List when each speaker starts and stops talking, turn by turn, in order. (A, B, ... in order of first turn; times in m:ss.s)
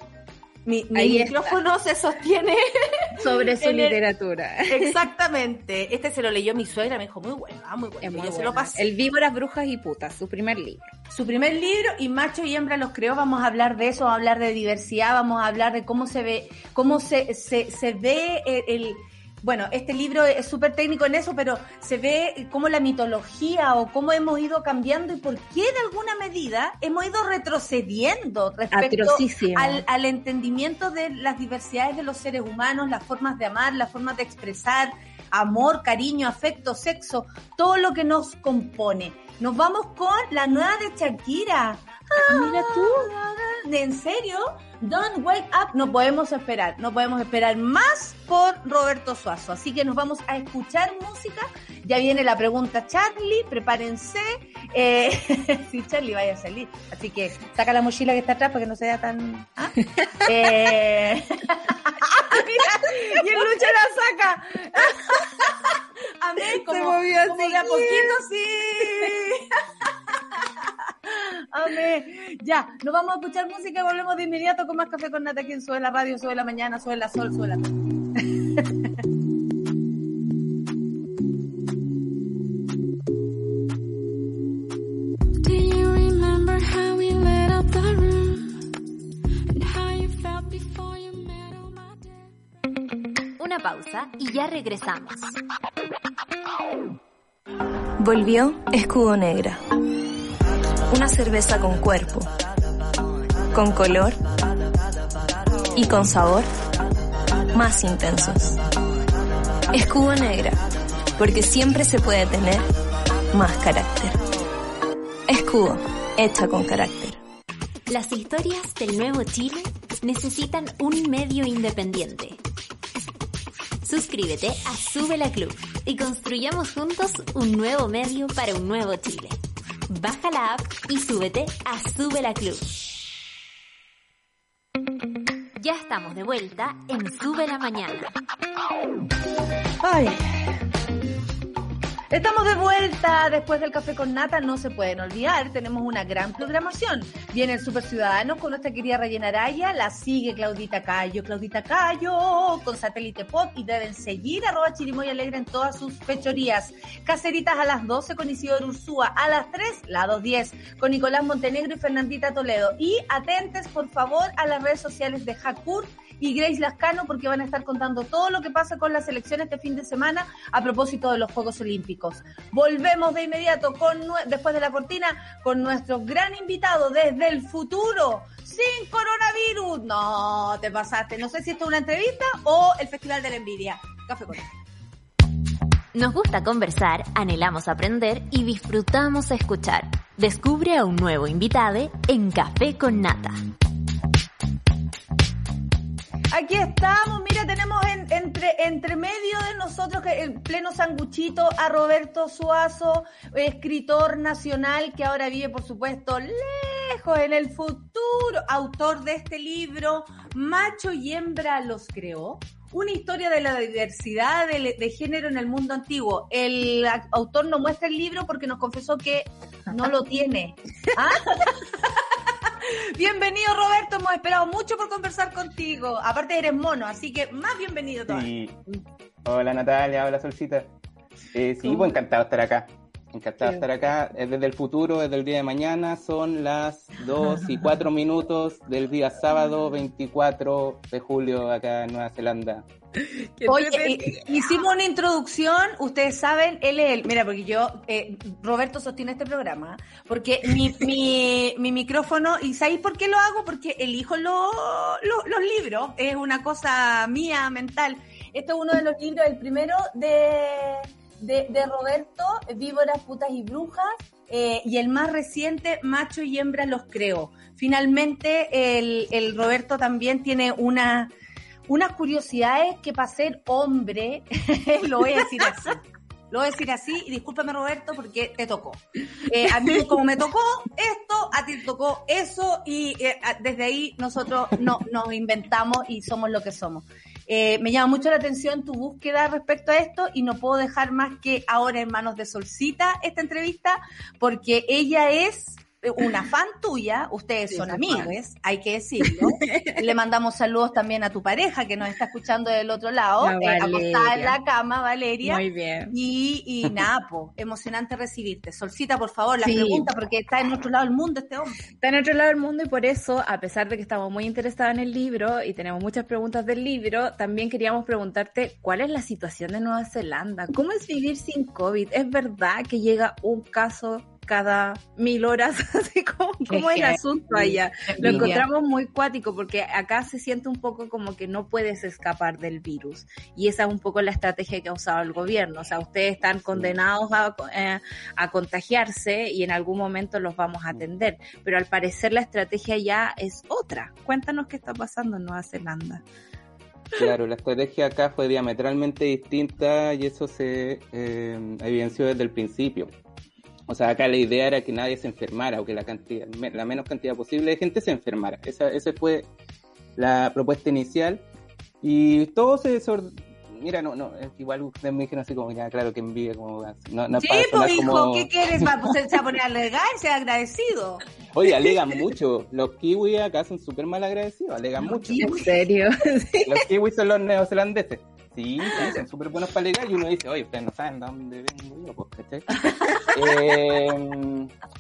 0:00.6-0:04.0 A
0:00.9-0:01.6 B
0:03.2-0:04.9 B
0:04.7-0:08.8 A
0:08.0-0:10.9 B
0:11.1-1:05.7 A
0:28.7-0:29.8 B
0:42.3-0:43.1 B
1:06.2-1:09.4 A
1:06.4-1:08.2 B
1:11.1-1:18.9 A
1:25.4-1:28.5 C
1:29.5-1:32.3 C
1:33.4-1:35.4 D
1:38.0-1:39.6 E
1:40.9-1:42.3 E
1:43.5-1:44.2 E
1:45.7-1:46.5 E
1:47.5-1:48.6 E
1:49.7-1:50.6 E
1:51.2-1:52.7 E
1:53.3-1:54.2 E
1:55.3-1:57.2 E
1:57.9-2:02.4 D
2:03.8-2:09.4 D
2:09.9-2:12.7 D
2:15.6-2:18.2 D
2:19.8-2:20.2 A
2:22.1-3:04.5 A
3:05.9-3:13.4 D
3:16.3-3:42.0 A
3:42.6-3:48.3 A
3:48.1-3:48.6 F
3:49.2-3:50.7 F
3:51.3-4:02.6 F
4:03.0-4:04.4 B
4:03.4-4:31.1 A
4:31.7-5:11.6 A
4:57.5-4:58.1 B
4:59.4-4:59.7 B
5:03.2-5:04.4 B
5:05.2-5:05.9 B
5:09.4-5:09.8 B
5:11.8-5:46.0 B
5:26.5-5:28.4 A
5:28.0-5:28.4 F
5:46.9-5:52.9 F
5:53.7-5:59.3 F
6:00.0-6:01.2 F
6:01.8-6:08.7 F
6:07.1-6:11.0 A
6:11.3-6:15.4 F
6:14.8-6:15.5 A
6:15.2-6:16.6 B
6:16.4-6:24.5 F
6:22.7-6:23.2 B